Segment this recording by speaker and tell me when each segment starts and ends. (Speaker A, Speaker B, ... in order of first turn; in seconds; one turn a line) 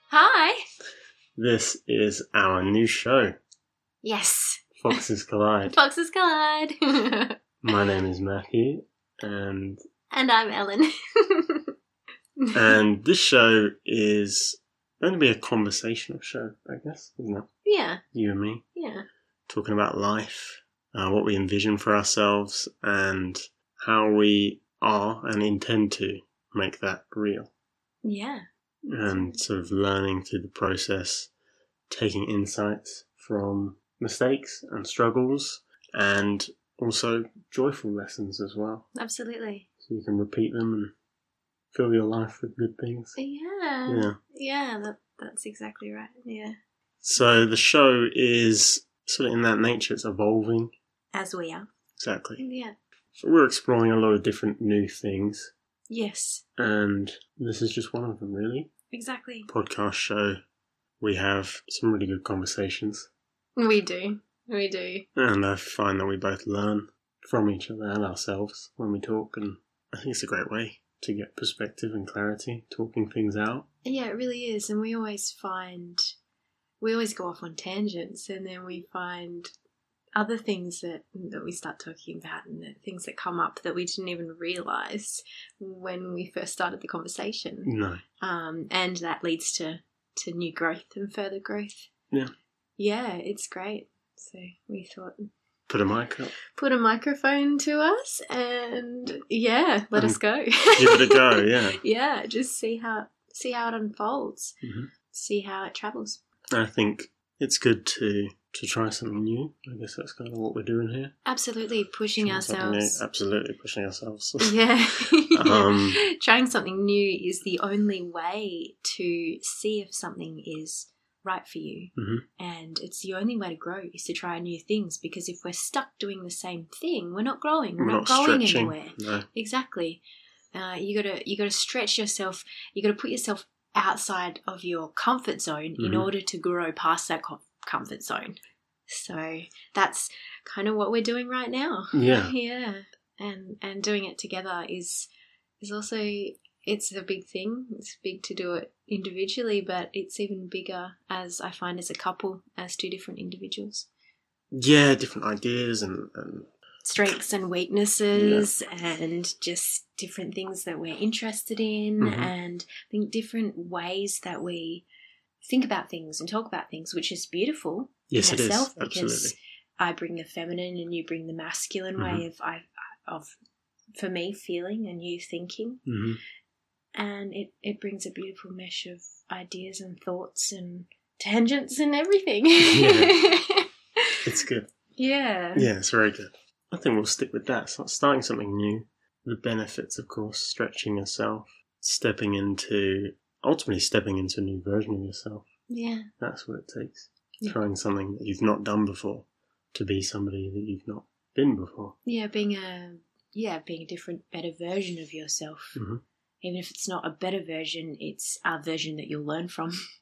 Speaker A: 0.1-0.6
Speaker B: 1.4-3.4
Speaker A: 4.0-5.0
Speaker B: 4.8-5.7
Speaker A: 5.6-7.3
Speaker B: 7.6-9.8
Speaker A: 10.1-11.6
Speaker A: 12.4-12.7
Speaker B: 12.5-17.5
Speaker A: 17.6-18.0
Speaker B: 18.1-18.6
Speaker A: 18.7-19.1
Speaker B: 19.5-27.5
Speaker A: 28.0-28.4
Speaker B: 28.9-31.3
Speaker A: 29.1-29.4
Speaker B: 31.9-38.9
Speaker A: 38.9-39.6
Speaker B: 39.8-40.9
Speaker B: 41.7-43.2
Speaker A: 43.1-46.5
Speaker B: 43.9-44.2
Speaker B: 47.0-50.7
Speaker A: 51.1-51.6
Speaker B: 52.0-52.4
Speaker A: 52.4-52.7
Speaker B: 53.2-55.5
Speaker A: 55.9-56.4
Speaker B: 56.6-58.7
Speaker A: 58.9-59.5
Speaker B: 59.5-60.4
Speaker B: 61.0-63.1
Speaker A: 63.6-65.0
Speaker B: 65.2-73.7
Speaker A: 73.8-76.1
Speaker A: 76.8-79.5
Speaker A: 80.2-87.7
Speaker B: 87.6-88.0
Speaker A: 88.2-91.9
Speaker A: 92.8-95.2
Speaker B: 95.7-96.3
Speaker A: 96.5-104.6
Speaker B: 100.8-101.8
Speaker B: 104.6-104.9
Speaker A: 105.1-106.2
Speaker B: 106.5-111.1
Speaker A: 111.2-113.0
Speaker B: 112.2-114.6
Speaker A: 114.4-130.0
Speaker B: 115.3-116.0
Speaker B: 122.0-122.2
Speaker B: 127.8-129.2
Speaker A: 130.5-145.1
Speaker B: 135.8-136.1
Speaker B: 141.9-142.3
Speaker A: 145.6-153.9
Speaker B: 154.5-156.5
Speaker A: 156.8-164.8
Speaker B: 158.1-158.5
Speaker B: 162.0-162.3
Speaker A: 165.4-173.3
Speaker B: 168.1-169.3
Speaker B: 172.0-172.2
Speaker A: 173.9-175.8
Speaker B: 175.8-176.2
Speaker A: 176.9-183.7
Speaker B: 182.7-183.2
Speaker B: 184.2-184.7
Speaker A: 185.0-185.7
Speaker B: 185.5-195.5
Speaker A: 195.7-196.1
Speaker B: 196.2-201.9
Speaker A: 202.0-205.8
Speaker B: 205.7-206.0
Speaker A: 206.4-209.8